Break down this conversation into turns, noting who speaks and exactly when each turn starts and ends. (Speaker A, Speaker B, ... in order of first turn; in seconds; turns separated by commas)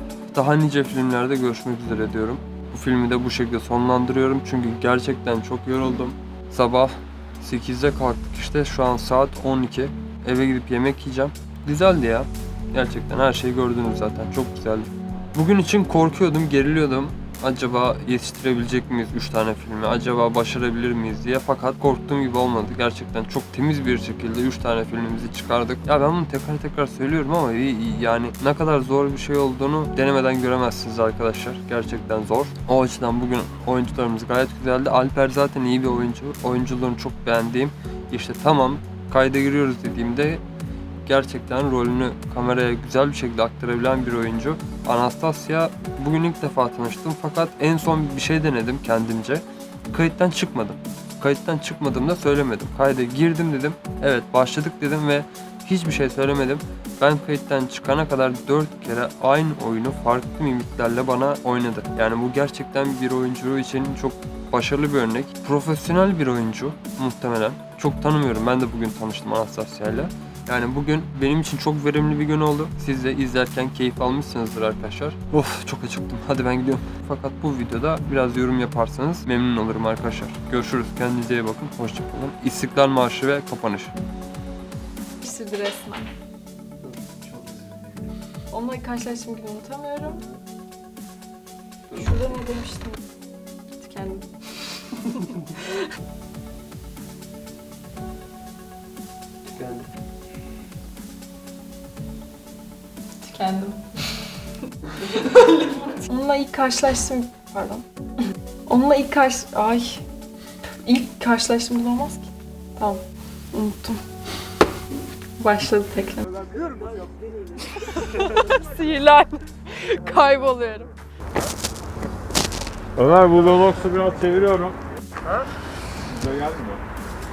Speaker A: 0.3-40.4, Speaker A: 41.1-83.9, Speaker B: 85.2-86.1, Speaker B: 88.5-90.2, Speaker A: 90.0-90.4, Speaker A: 91.9-92.4, Speaker B: 92.0-93.0, Speaker B: 93.8-95.8, Speaker A: 99.5-99.9, Speaker B: 103.2-104.0, Speaker B: 105.0-107.8, Speaker B: 108.7-110.0, Speaker B: 110.8-113.0, Speaker B: 113.5-114.0, Speaker B: 115.4-116.3, Speaker B: 117.9-120.9, Speaker C: 123.0-124.8, Speaker A: 125.2-125.5, Speaker C: 126.1-126.8